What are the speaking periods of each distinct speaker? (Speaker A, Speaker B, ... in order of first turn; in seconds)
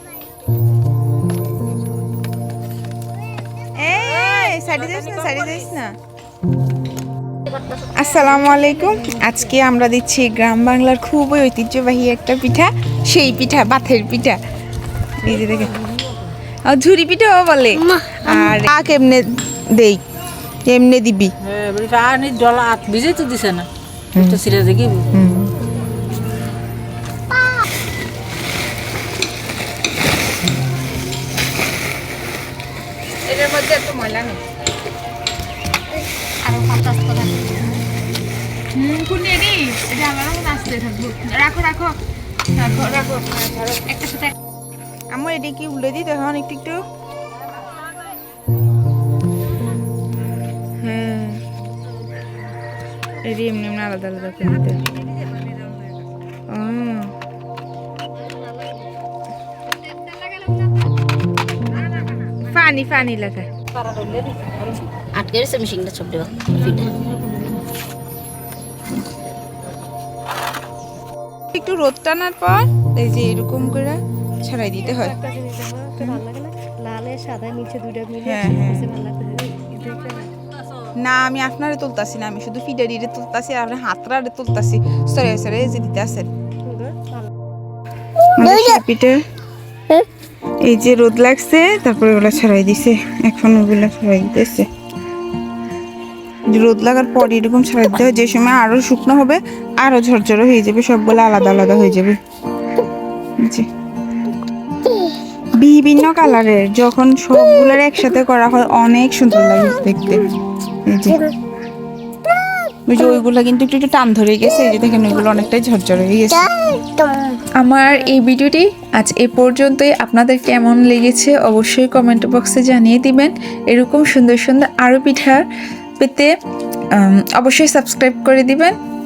Speaker A: 3.7-5.9, 7.8-14.4, 15.2-15.8, 16.6-20.0, 20.6-21.3, 24.1-24.4, 25.1-25.5, 33.2-34.4, 38.7-42.0, 42.5-44.3, 45.1-46.9, 50.8-51.4, 53.2-54.8, 56.5-57.1, 62.3-63.5, 71.5-75.1, 78.2-79.0, 80.9-86.3, 88.3-89.2, 90.6-94.7, 96.5-102.2, 103.4-103.7, 105.6-110.3, 110.8-111.3, 112.9-116.5, 117.6-125.4, 126.0-126.3, 126.9-128.8
Speaker B: 4.4-5.4, 21.4-25.1, 63.7-64.8, 66.6-67.2
Speaker C: 36.4-37.8, 65.1-67.0, 74.8-80.3, 86.6-87.2